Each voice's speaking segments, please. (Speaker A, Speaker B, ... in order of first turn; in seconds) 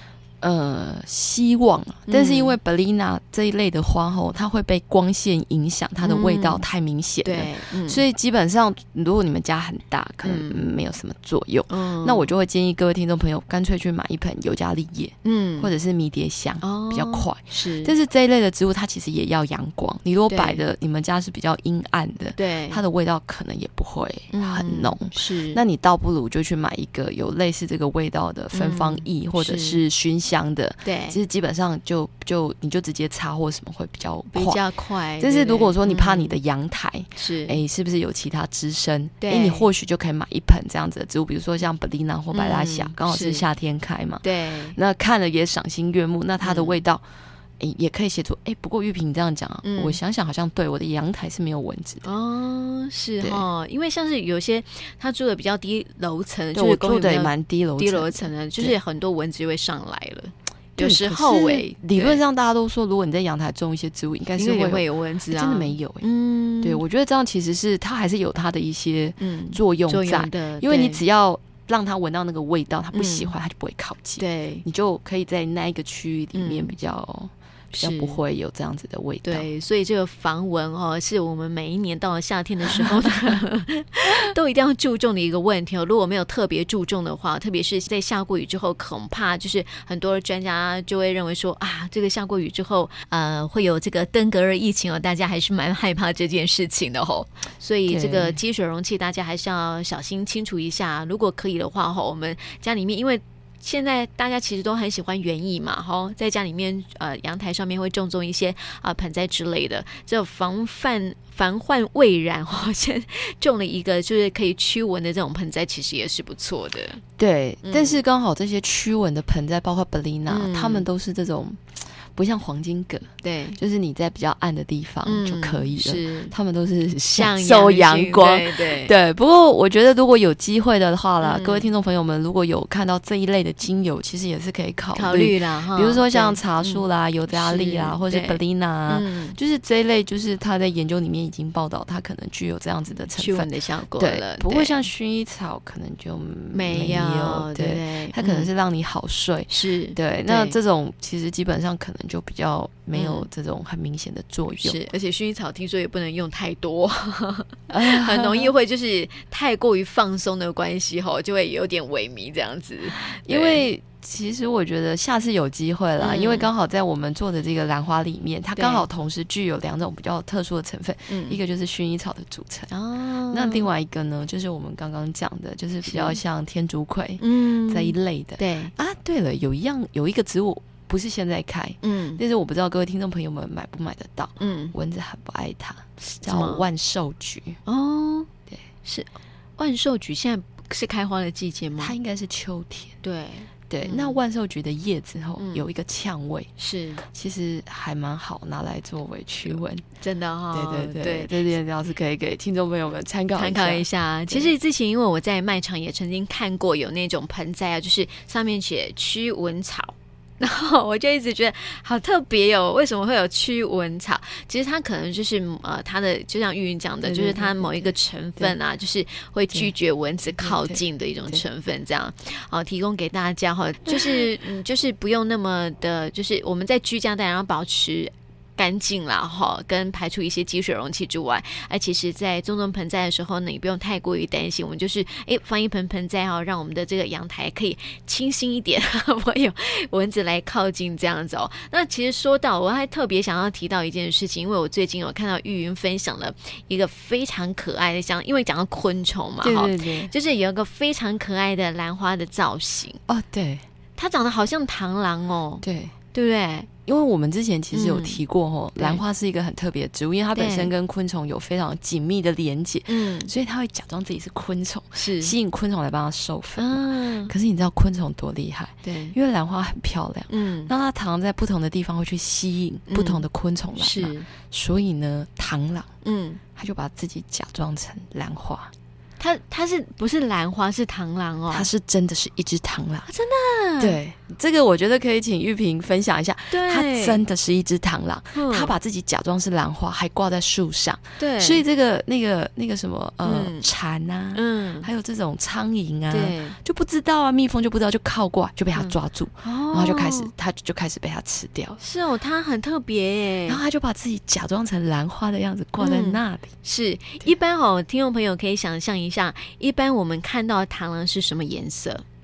Speaker A: 0.4-34.6, 35.2-47.0, 47.6-52.1, 53.2-53.5, 56.5-58.8, 60.8-66.1, 66.6-79.5, 82.8-83.4, 97.9-98.4, 117.2-154.8, 157.7-158.5, 162.9-172.7, 173.3-187.6, 191.8-193.0, 193.7-196.5, 197.1-199.8, 200.5-204.5, 217.0-218.6, 220.2-221.4, 223.9-224.2, 249.4-250.1, 253.1-253.6, 255.6-255.9, 256.9-275.9, 276.6-278.7, 281.5-283.1, 283.8-301.8, 303.5-306.5
Speaker B: 2.1-2.6, 6.0-6.6, 7.2-8.0, 10.2-10.7, 11.7-12.3, 15.2-15.7, 16.6-17.9, 20.3-20.6, 22.4-22.8, 24.3-25.6, 28.5-29.8, 30.8-31.2, 34.3-36.4, 37.2-37.6, 39.2-39.7, 42.3-43.5, 44.2-44.8, 46.4-46.8, 49.6-50.0, 52.0-62.2, 64.4-66.8, 69.2-71.0, 72.9-73.3, 74.2-74.6, 76.3-76.8, 77.7-78.2, 79.2-117.0, 117.6-118.0, 120.3-120.9, 123.2-123.6, 125.0-126.3, 127.1-128.9, 131.2-131.7, 134.9-139.4, 143.2-144.9, 146.5-148.5, 149.5-150.6, 152.9-153.3, 154.6-163.7, 166.0-166.5, 168.6-168.9, 171.1-171.4, 172.7-173.7, 175.8-176.2, 177.2-178.7, 181.8-182.2, 184.4-184.7, 186.0-186.7, 187.7-188.3, 188.8-191.9, 193.0-194.2, 195.4-195.7, 196.6-197.0, 199.5-201.4, 203.4-253.0, 254.0-256.7, 257.7-258.2, 260.3-260.7, 262.9-263.3, 265.0-265.4, 266.6-267.3, 268.8-269.2, 270.3-270.7, 272.9-273.2, 273.8-274.3, 276.0-276.4, 279.2-281.7, 283.1-284.0, 286.5-287.2, 288.3-288.7, 291.2-291.6, 293.2-293.7, 294.4-294.9, 296.1-296.6, 298.8-300.3, 301.8-303.6, 305.8-312.0